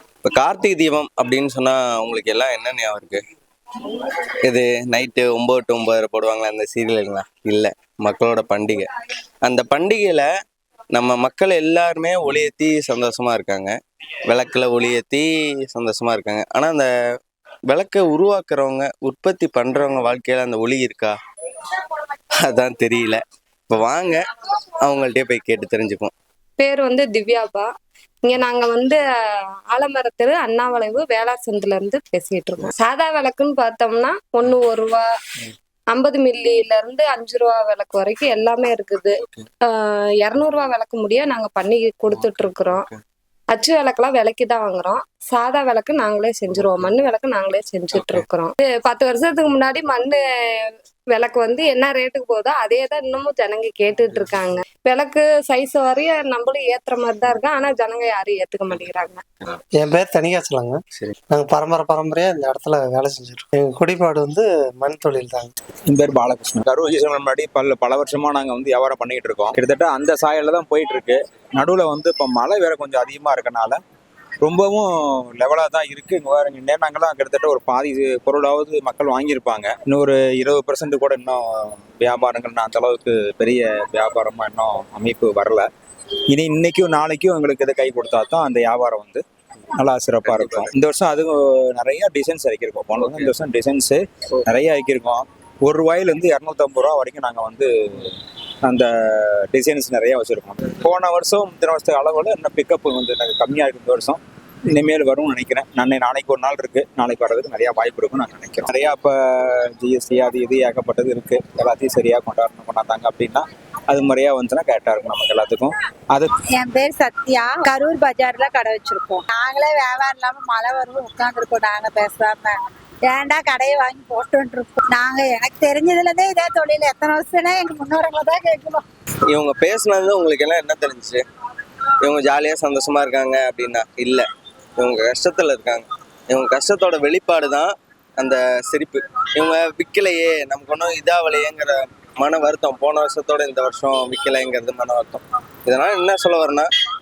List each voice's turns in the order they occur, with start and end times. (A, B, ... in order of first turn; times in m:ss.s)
0:00.2-0:03.2 A
0:04.5-0:08.9 A
0:09.4-0:10.3 A
0:10.9-0:13.7 A
0:14.3-0:16.9 A
0:17.7-0:21.2 A
0:22.4-0:24.2 A
0:24.8-0:26.1 A
0:26.6-0:27.7 B
0:28.2-0:29.0 B
0:29.7-0:35.0 B
0:35.9-0:42.9 B
0:42.1-0:43.0 A
0:43.5-0:59.2 B
0:48.0-0:48.2 A
0:59.8-1:05.5 C
1:05.9-1:13.8 D
1:14.4-1:25.7 D
1:26.3-1:29.2 D
1:29.8-1:56.3 D
1:30.2-1:30.7 A
1:32.9-1:33.3 A
1:56.5-2:02.5 E
2:03.1-2:06.7 E
2:09.3-2:11.2 A
2:12.0-2:14.2 A
2:14.8-2:26.7 A